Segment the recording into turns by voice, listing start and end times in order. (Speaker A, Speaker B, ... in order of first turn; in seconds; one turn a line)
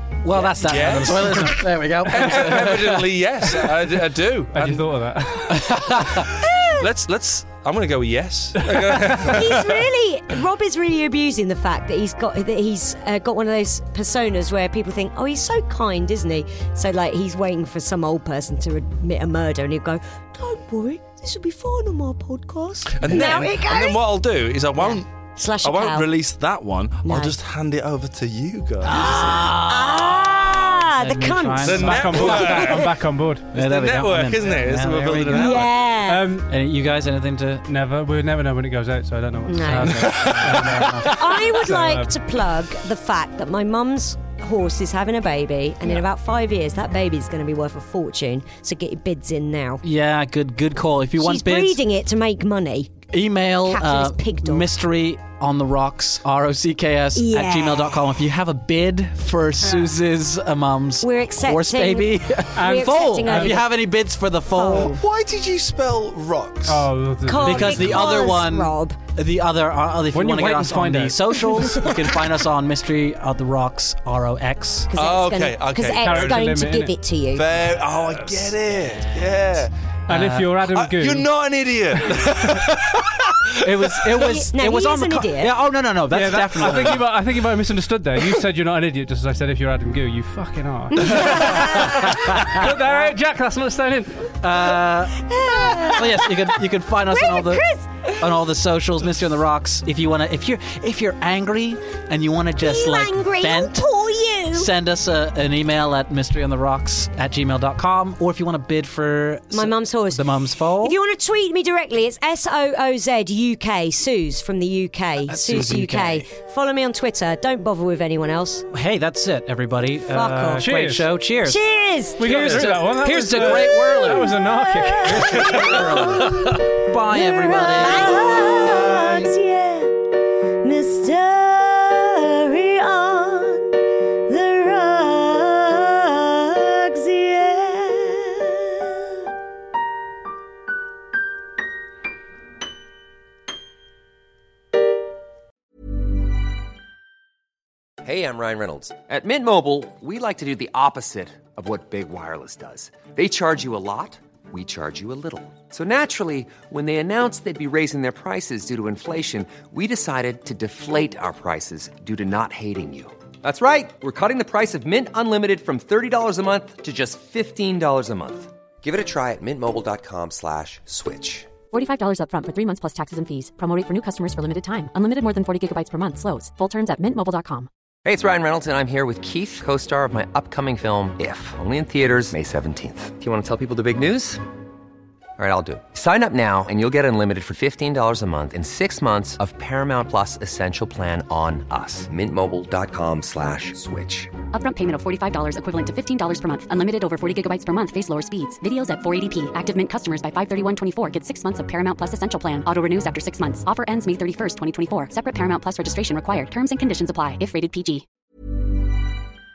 Speaker A: 0.2-3.8
Speaker B: 0.4-4.9
Speaker C: 4.5-5.8
Speaker A: 5.5-6.3
Speaker B: 6.0-10.0
Speaker D: 6.3-6.9
Speaker D: 8.9-24.0
Speaker B: 22.9-29.5
Speaker D: 24.8-26.1
Speaker D: 27.0-27.3
Speaker A: 28.8-32.8
Speaker D: 28.9-32.8
Speaker B: 31.6-32.9
Speaker C: 31.8-33.5
Speaker A: 33.5-35.7
Speaker B: 33.5-35.7
Speaker D: 35.3-36.3
Speaker C: 36.0-36.5
Speaker A: 36.5-37.6
Speaker C: 37.6-42.1
Speaker D: 39.5-40.1
Speaker A: 39.7-41.1
Speaker B: 39.8-41.4
Speaker D: 41.0-49.8
Speaker A: 49.8-51.8
Speaker D: 51.2-53.0
Speaker A: 53.1-65.0
Speaker D: 53.6-54.7
Speaker D: 57.1-58.0
Speaker D: 61.0-63.9
Speaker C: 62.5-63.6
Speaker D: 64.5-65.0
Speaker B: 64.7-66.9
Speaker C: 66.7-68.1
Speaker D: 67.3-69.0
Speaker A: 67.4-74.9
Speaker C: 70.1-71.9
Speaker D: 74.9-77.5
Speaker B: 74.9-76.4
Speaker C: 76.0-76.9
Speaker B: 77.3-79.7
Speaker A: 78.3-79.5
Speaker A: 80.1-80.6
Speaker C: 80.1-81.3
Speaker B: 80.7-83.3
Speaker C: 82.1-82.6
Speaker A: 83.6-87.1
Speaker B: 83.9-84.2
Speaker D: 84.1-85.5
Speaker C: 86.1-94.4
Speaker B: 86.6-86.9
Speaker D: 91.0-91.9
Speaker A: 92.1-92.6
Speaker A: 94.4-103.9
Speaker D: 95.1-96.5
Speaker D: 97.0-98.1
Speaker D: 102.6-104.7
Speaker A: 104.5-110.9
Speaker D: 109.5-118.7
Speaker A: 115.2-116.3
Speaker A: 118.7-121.6
Speaker D: 120.1-120.7
Speaker C: 120.5-121.1
Speaker D: 121.4-122.2
Speaker A: 122.2-124.4
Speaker C: 122.2-125.8
Speaker B: 122.2-122.7
Speaker D: 123.4-126.5
Speaker A: 125.0-129.3
Speaker B: 125.6-126.5
Speaker D: 127.1-129.9
Speaker D: 130.6-133.7
Speaker D: 134.3-138.9
Speaker E: 148.0-171.5
Speaker F: 171.7-177.7
Speaker E: 178.0-184.4
Speaker E: 185.4-194.4
Speaker F: 194.5-208.0